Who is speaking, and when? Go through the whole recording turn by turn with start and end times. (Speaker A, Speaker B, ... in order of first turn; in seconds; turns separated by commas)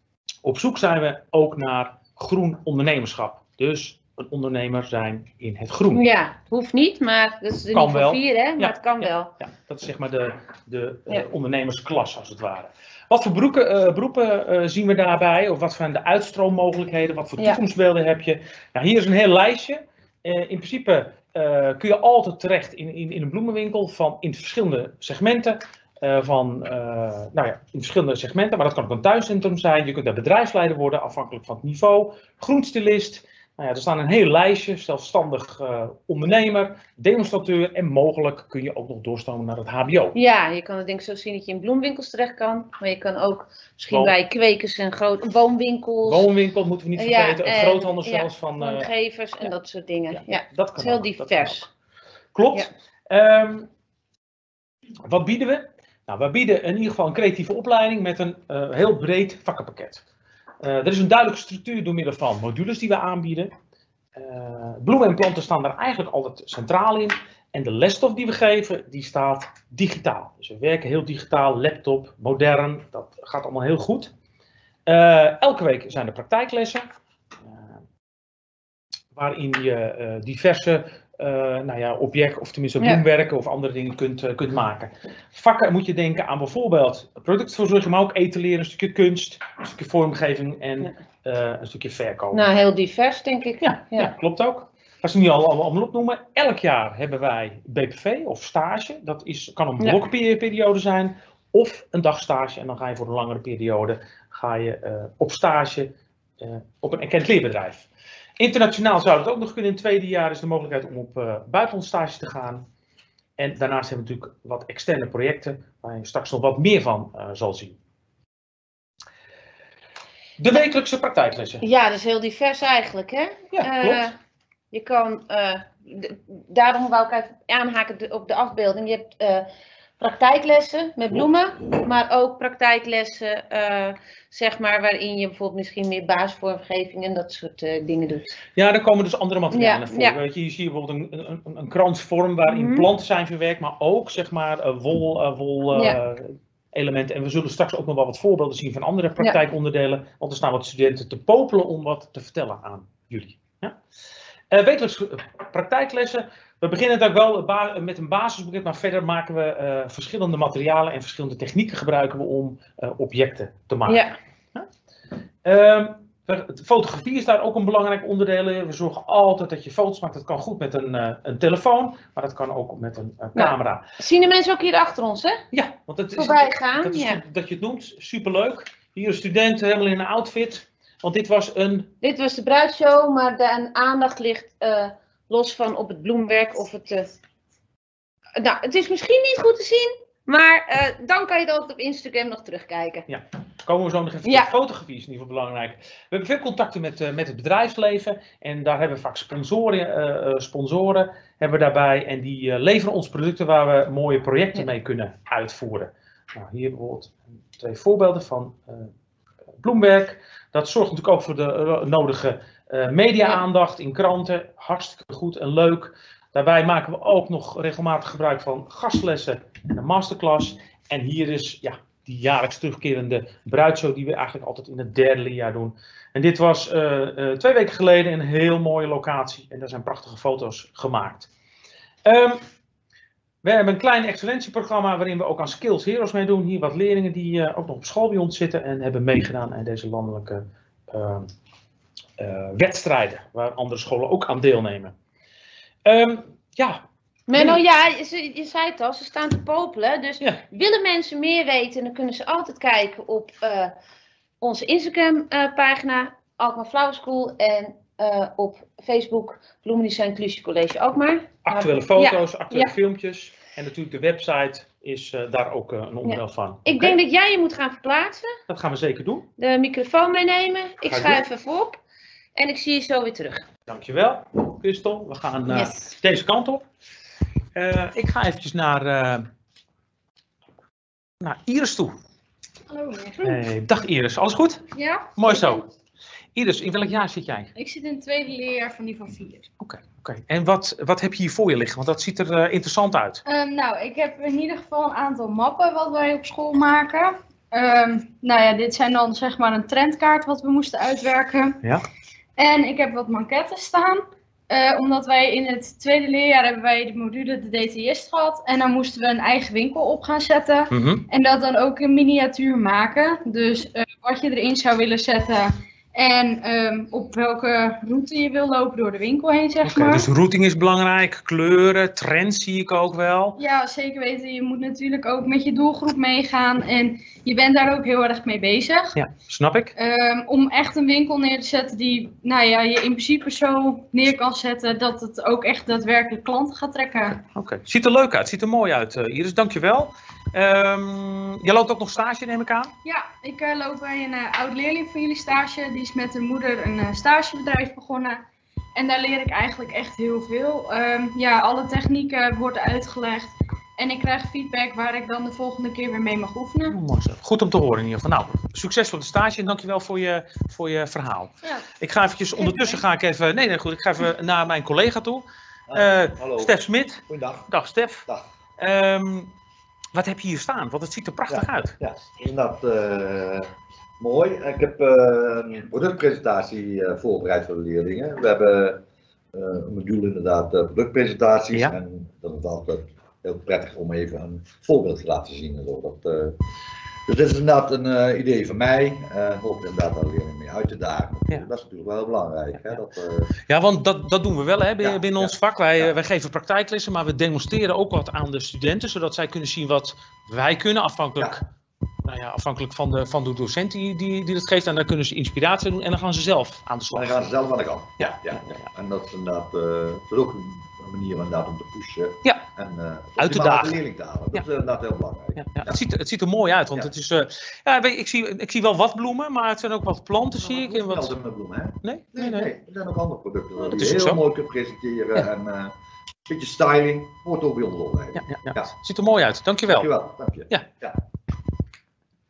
Speaker A: 0.4-6.0, Speaker B: 5.9-9.3, Speaker A: 7.7-40.1, Speaker B: 40.1-46.3, Speaker A: 43.9-44.1, Speaker A: 46.0-48.9, Speaker B: 46.9-51.7, Speaker A: 50.1-51.7, Speaker A: 52.3-53.7, Speaker A: 55.0-60.0, Speaker A: 60.6-63.5, Speaker A: 64.2-74.1, Speaker A: 74.9-76.8, Speaker A: 79.1-92.4, Speaker B: 82.8-83.0, Speaker B: 92.3-94.1, Speaker A: 93.6-107.9, Speaker A: 108.4-112.6, Speaker A: 113.4-117.8, Speaker A: 120.4-121.6, Speaker B: 121.6-124.1, Speaker A: 123.5-124.1, Speaker B: 124.7-129.5, Speaker B: 130.0-138.4, Speaker A: 138.6-153.8, Speaker B: 139.5-140.2, Speaker B: 142.5-142.9, Speaker B: 145.7-146.0, Speaker A: 154.5-164.7, Speaker B: 163.9-164.1, Speaker A: 165.4-173.8, Speaker B: 173.3-175.4, Speaker A: 175.5-181.9, Speaker B: 176.2-177.2, Speaker B: 182.0-187.1, Speaker B: 188.4-193.1, Speaker A: 193.1-208.9, Speaker B: 194.2-194.5, Speaker A: 209.6-231.3, Speaker A: 232.0-232.4, Speaker A: 233.4-241.3, Speaker A: 242.2-244.9, Speaker A: 245.8-246.8, Speaker B: 247.3-253.7, Speaker A: 247.3-247.6, Speaker B: 254.4-262.7, Speaker A: 261.4-267.0, Speaker B: 266.0-268.3, Speaker A: 268.5-269.3, Speaker B: 269.4-271.8, Speaker A: 270.9-271.2, Speaker B: 272.4-273.4, Speaker A: 273.7-276.6, Speaker C: 275.6-275.9, Speaker A: 277.5-279.2, Speaker A: 281.2-281.9, Speaker C: 282.7-283.4, Speaker A: 283.2-284.6, Speaker C: 284.7-285.6, Speaker A: 285.1-285.6, Speaker A: 286.3-287.5, Speaker C: 287.5-289.5, Speaker A: 289.6-293.2, Speaker C: 293.2-301.6, Speaker C: 302.4-320.1, Speaker A: 310.7-311.1, Speaker A: 319.6-323.4, Speaker C: 323.4-329.0, Speaker A: 328.9-329.7, Speaker C: 329.8-337.2, Speaker A: 337.1-342.7, Speaker C: 342.8-356.8, Speaker A: 356.7-368.0, Speaker D: 365.7-368.3, Speaker A: 368.6-369.3, Speaker A: 369.9-371.7, Speaker D: 371.3-373.5, Speaker D: 374.0-378.8, Speaker D: 379.3-386.3, Speaker D: 387.1-393.3, Speaker A: 393.5-401.4, Speaker D: 394.8-395.9, Speaker A: 402.0-407.3, Speaker D: 406.9-415.8, Speaker A: 408.0-408.7, Speaker A: 413.2-413.8, Speaker A: 415.4-421.2, Speaker D: 420.4-425.7, Speaker A: 421.8-422.5, Speaker A: 423.6-424.2, Speaker D: 426.3-428.7, Speaker A: 428.1-429.9, Speaker D: 429.7-431.0